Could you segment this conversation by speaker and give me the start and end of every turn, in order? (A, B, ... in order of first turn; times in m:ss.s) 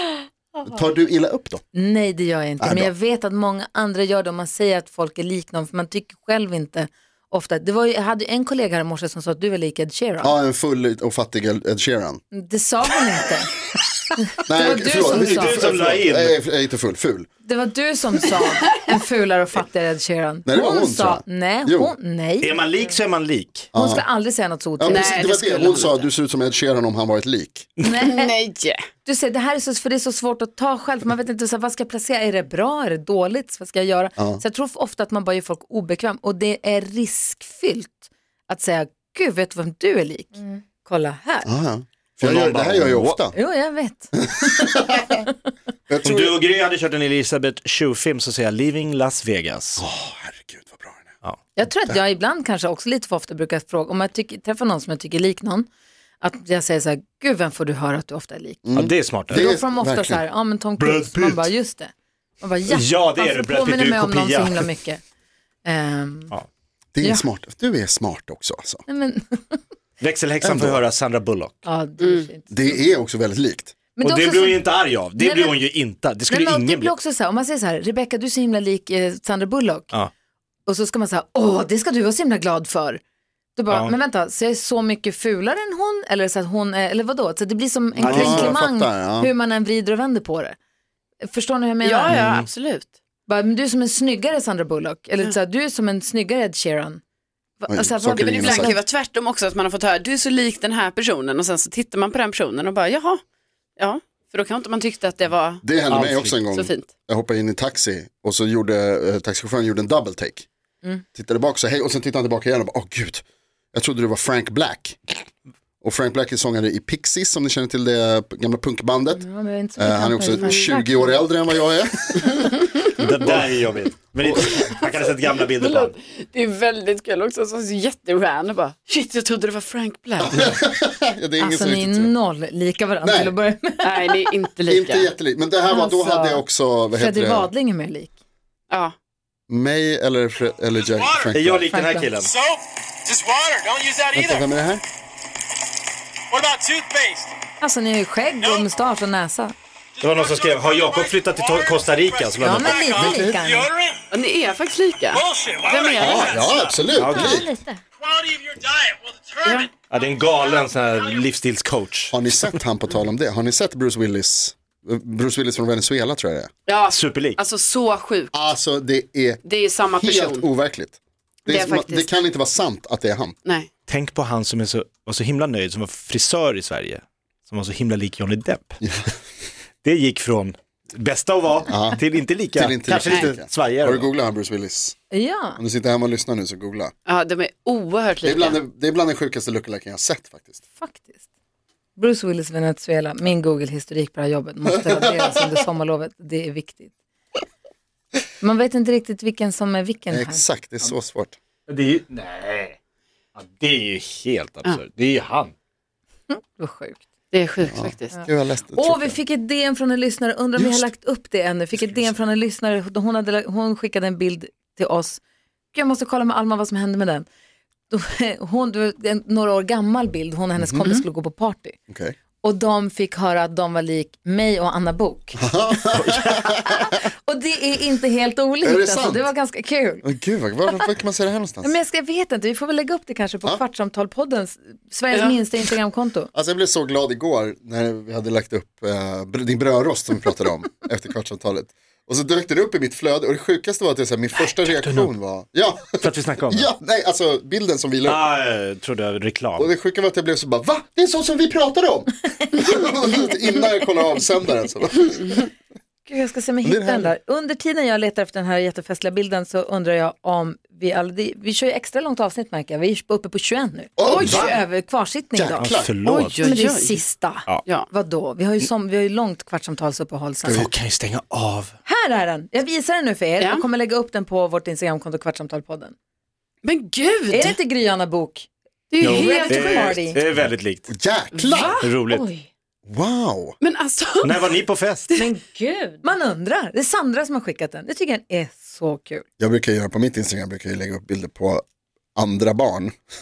0:00.6-0:00.8 A
0:00.6-0:01.6 B
0:01.7-0:10.3 C
0:02.6-0:02.9 B
0:10.2-0:12.2 B
0:12.3-0:13.5 C
0:14.2-0:15.6 C
0:14.5-0:17.3 B
0:15.0-0:16.4 D
0:17.4-0:22.6 C
0:20.4-0:21.9 B
0:22.4-0:23.7 D
0:23.7-0:24.0 B
0:23.7-0:25.8 C
0:24.8-0:27.7 B
0:24.9-0:26.0 E
0:27.8-0:28.3 C
0:28.0-0:28.8 E
0:29.0-0:41.5 C
0:34.2-0:34.4 B
0:41.4-0:43.4 B
0:42.2-0:43.2 D
0:43.3-0:45.3 C
0:44.2-0:45.2 B
0:45.9-0:46.4 B
0:46.0-0:49.8 D
0:49.8-0:51.1 B
0:51.6-0:55.7 C
0:56.2-0:58.6 C
0:58.6-1:00.2 B
0:58.8-0:59.5 D
0:59.3-1:05.0 C
1:00.8-1:01.5 D
1:02.7-1:04.7 D
1:05.6-1:06.3 C
1:06.9-1:08.8 B
1:08.9-1:09.6 C
1:10.0-1:11.6 D
1:10.4-1:10.8 B
1:11.6-1:12.8 C
1:12.0-1:12.3 E
1:12.5-1:13.8 B
1:14.0-1:14.6 C
1:14.0-1:16.9 D
1:15.2-1:15.6 C
1:16.3-1:19.9 C
1:20.7-1:23.0 C
1:23.6-1:30.6 C
1:28.0-1:29.3 B
1:28.0-1:28.6 D
1:31.2-1:32.1 C
1:31.8-1:32.9 E
1:32.1-1:32.5 D
1:33.3-1:37.0 C
1:37.6-1:38.8 C
1:37.7-1:38.8 B
1:38.2-1:43.2 E
1:43.8-1:45.6 E
1:45.6-1:50.5 B
1:45.9-1:46.4 D
1:46.5-1:46.9 E
1:51.1-1:55.0 B
1:55.8-1:59.3 B
1:59.2-2:01.2 C
1:59.8-2:02.6 B
2:03.0-2:06.0 D
2:04.2-2:04.7 B
2:04.7-2:10.5 E
2:10.2-2:12.1 B
2:11.4-2:14.3 C
2:13.0-2:13.3 B
2:13.8-2:15.1 E
2:14.7-2:17.5 B
2:15.7-2:16.4 C
2:17.0-2:18.1 C
2:19.5-2:21.7 B
2:20.8-2:21.3 F
2:21.3-2:22.3 D
2:21.7-2:22.1 C
2:22.2-2:24.5 F
2:24.1-2:24.8 B
2:26.3-2:27.3 F
2:27.6-2:29.5 C
2:28.4-2:28.7 F
2:30.0-2:34.0 F
2:30.0-2:32.9 D
2:32.4-2:33.7 C
2:33.0-2:33.5 B
2:34.1-2:36.4 E
2:35.1-2:36.8 F
2:36.0-2:37.5 B
2:37.0-2:37.5 D
2:37.0-2:37.8 A
2:38.0-2:41.2 F
2:39.4-2:39.7 E
2:39.9-2:42.6 D
2:42.1-2:46.5 B
2:46.7-2:48.3 E
2:46.9-2:47.4 D
2:48.3-2:49.4 B
2:49.4-2:50.5 E
2:50.0-2:53.4 B
2:51.5-2:52.1 E
2:53.9-2:58.8 D
2:58.8-2:59.1 B
2:59.8-3:04.1 D
3:01.6-3:02.0 B
3:02.5-3:05.0 B
3:05.1-3:05.6 C
3:05.6-3:06.9 B
3:07.1-3:08.6 E
3:08.2-3:10.6 B
3:10.8-3:11.2 C
3:12.0-3:16.9 C
3:14.7-3:15.6 B
3:18.4-3:20.4 C
3:20.1-3:21.4 B
3:21.7-3:22.8 D
3:23.4-3:25.5 D
3:26.3-3:27.0 C
3:27.3-3:28.1 E
3:27.6-3:29.2 B
3:28.1-3:35.2 C
3:30.6-3:30.9 B
3:35.7-3:37.3 C
3:37.9-3:41.8 C
3:40.6-3:40.9 B
3:41.9-3:42.2 B
3:42.4-3:45.4 C
3:45.4-3:46.9 B
3:45.9-3:46.5 D
3:46.7-3:50.1 C
3:48.6-3:49.3 B
3:50.0-3:51.7 B
3:51.6-3:56.3 C
3:56.3-4:08.2 B
4:04.5-4:05.1 D
4:06.0-4:06.7 D
4:08.1-4:09.7 D
4:09.6-4:15.3 B
4:16.1-4:25.7 C
4:16.6-4:17.1 B
4:24.0-4:24.6 B
4:24.1-4:24.6 E
4:24.2-4:24.6 D
4:25.3-4:26.0 B
4:25.6-4:26.4 D
4:26.0-4:27.0 E
4:26.4-4:30.6 C
4:30.4-4:30.7 B
4:30.5-4:31.8 D
4:31.9-4:36.0 C
4:33.4-4:33.6 E
4:36.6-4:37.6 E
4:37.3-4:40.2 C
4:38.9-4:40.0 E
4:39.0-4:40.9 D
4:40.9-4:41.8 B
4:41.3-4:41.8 E
4:41.8-4:42.3 D
4:42.0-4:42.5 A
4:42.9-4:43.6 B
4:43.6-4:44.5 E
4:44.2-4:45.1 D
4:45.2-4:46.1 A
4:46.0-4:49.2 C
4:49.4-4:51.6 B
4:52.2-4:53.0 B